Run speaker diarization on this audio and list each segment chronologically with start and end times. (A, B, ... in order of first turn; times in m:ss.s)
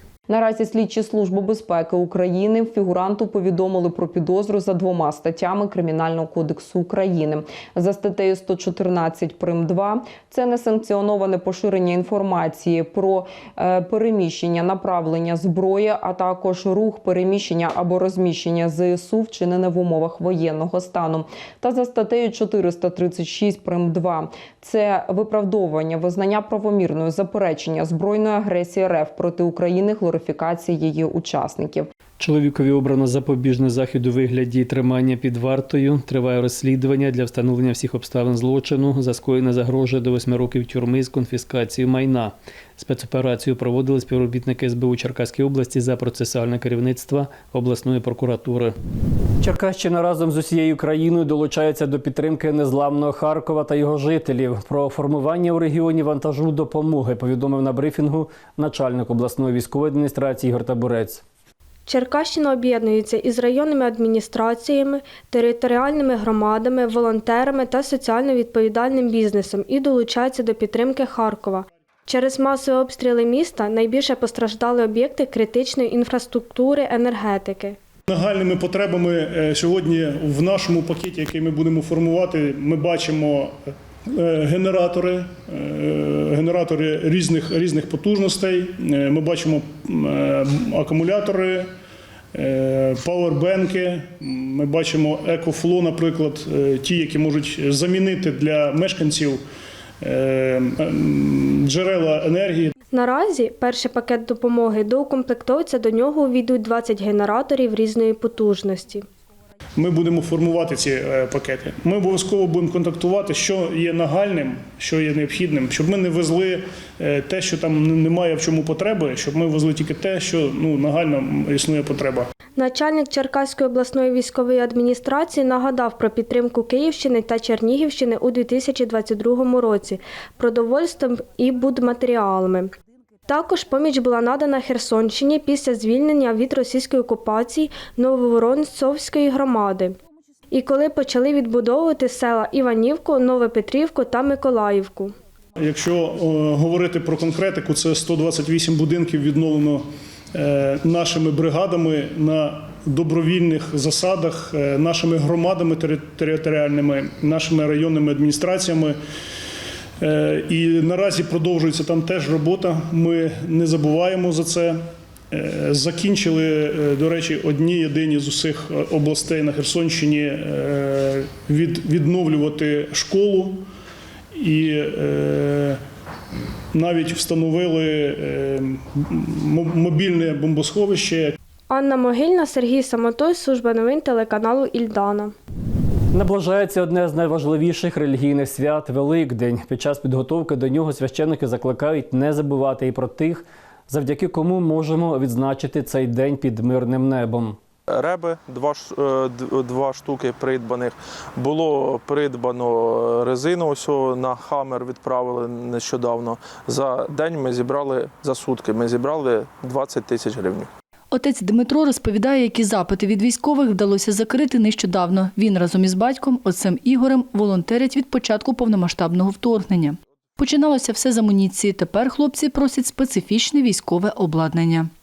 0:00.3-0:31.9 A
0:32.2-0:48.8 B
0:49.4-1:01.2 B
1:01.9-1:17.8 C
1:18.1-1:31.7 D
1:32.3-1:39.4 D
1:40.0-1:42.7 D
1:42.9-1:49.0 C
1:49.8-2:02.3 D
2:02.6-2:12.7 C
2:13.3-2:20.0 C
2:20.5-2:25.1 C
2:25.6-2:39.0 D
2:40.0-2:53.7 D
2:54.3-2:55.8 D
2:56.7-3:01.4 D
3:01.7-3:05.3 C
3:06.1-3:17.6 B
3:17.9-3:30.7 E
3:31.1-3:44.9 F